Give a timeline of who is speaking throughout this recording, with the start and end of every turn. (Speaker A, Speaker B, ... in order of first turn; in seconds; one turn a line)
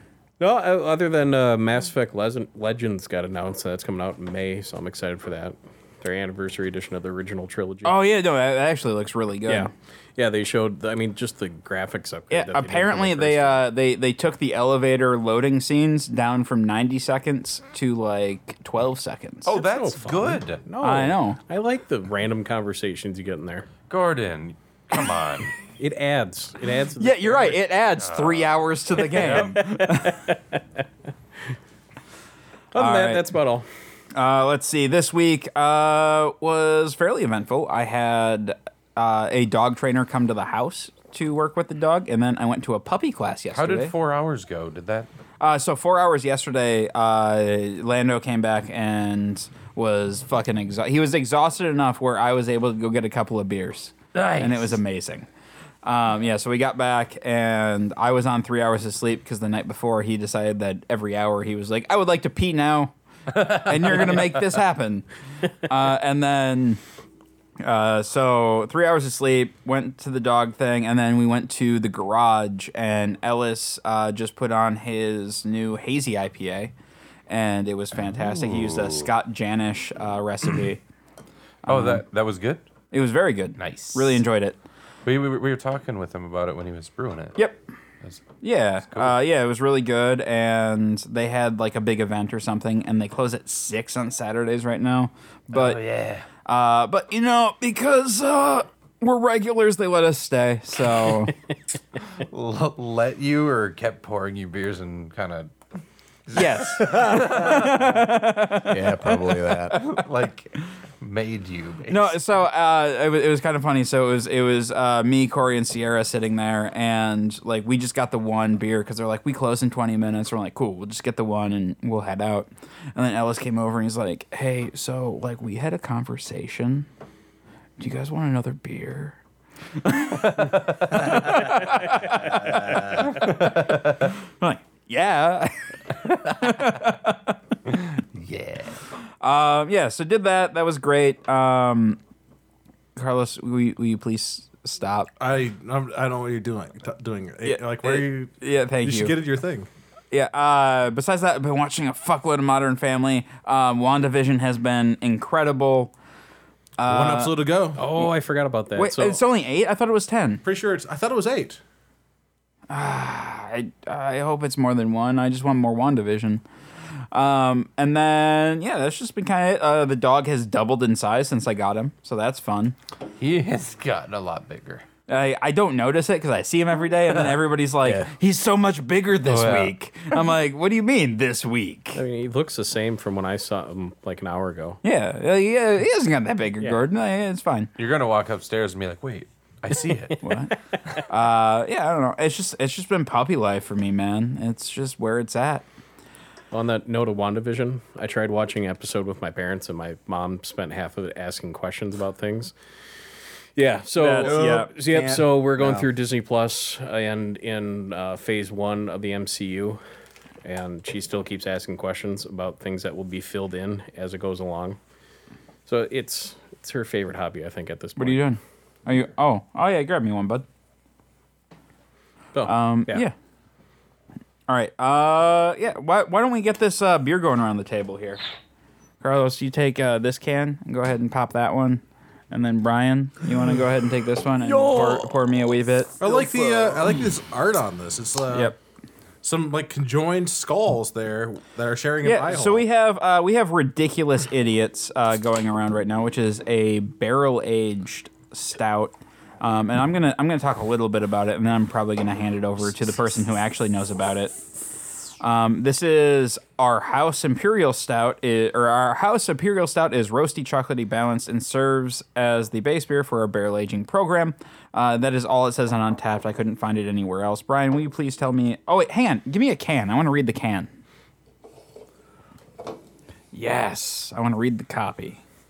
Speaker A: 0.4-8.0
Speaker B: 7.8-9.7
Speaker A: 9.5-13.7
Speaker B: 12.3-19.5
Speaker C: 19.5-20.6
Speaker A: 19.5-23.7
Speaker B: 20.8-21.4
Speaker C: 23.9-25.5
Speaker A: 25.8-27.7
Speaker B: 27.0-30.3
Speaker C: 28.0-29.6
Speaker A: 29.2-30.6
Speaker A: 32.7-33.7
Speaker B: 32.8-33.3
Speaker B: 34.1-43.9
Speaker C: 43.5-45.1
Speaker B: 45.4-55.3
Speaker C: 54.1-54.8
Speaker B: 55.8-65.0
Speaker B: 65.6-66.8
Speaker B: 67.6-76.7
Speaker B: 77.3-80.8
Speaker C: 78.0-79.1
Speaker B: 81.7-82.0
Speaker C: 81.7-82.7
Speaker B: 82.9-84.6
Speaker C: 83.6-84.2
Speaker C: 85.0-87.4
Speaker B: 87.4-87.6
Speaker B: 88.4-95.8
Speaker C: 88.9-89.2
Speaker C: 95.5-96.3
Speaker B: 96.4-101.3
Speaker C: 102.3-105.5
Speaker C: 106.3-107.9
Speaker B: 106.3-108.8
Speaker D: 108.6-109.8
Speaker C: 109.7-112.1
Speaker B: 111.9-126.9
Speaker B: 127.8-129.2
Speaker B: 129.8-137.4
Speaker C: 133.0-133.5
Speaker C: 138.0-138.8
Speaker B: 139.2-142.0
Speaker B: 143.0-145.1
Speaker E: 145.2-148.3
Speaker B: 147.4-149.2
Speaker E: 148.8-149.7
Speaker B: 150.1-155.9
Speaker B: 156.8-158.1
Speaker E: 156.9-157.8
Speaker A: 157.8-159.2
Speaker B: 158.7-160.4
Speaker E: 160.4-161.6
Speaker B: 162.7-166.4
Speaker B: 167.1-172.8
Speaker C: 173.2-174.8
Speaker B: 175.1-182.0
Speaker D: 177.8-178.1
Speaker C: 179.2-179.7
Speaker A: 181.9-184.8
Speaker B: 184.8-187.7
Speaker C: 187.8-190.2
Speaker B: 190.2-190.5
Speaker B: 191.1-195.7
Speaker A: 196.5-202.5
Speaker A: 203.6-209.8
Speaker B: 203.9-204.8
Speaker D: 204.2-205.9
Speaker A: 210.4-214.8
Speaker A: 215.7-218.3
Speaker B: 218.0-220.4
Speaker A: 222.3-223.1
Speaker B: 222.4-223.1
Speaker B: 224.5-228.2
Speaker B: 229.0-236.0
Speaker D: 234.4-235.2
Speaker D: 236.0-236.9
Speaker E: 236.0-238.6
Speaker B: 238.3-238.6
Speaker E: 239.2-242.7
Speaker B: 242.0-254.3
Speaker B: 255.2-270.7
Speaker B: 273.3-275.2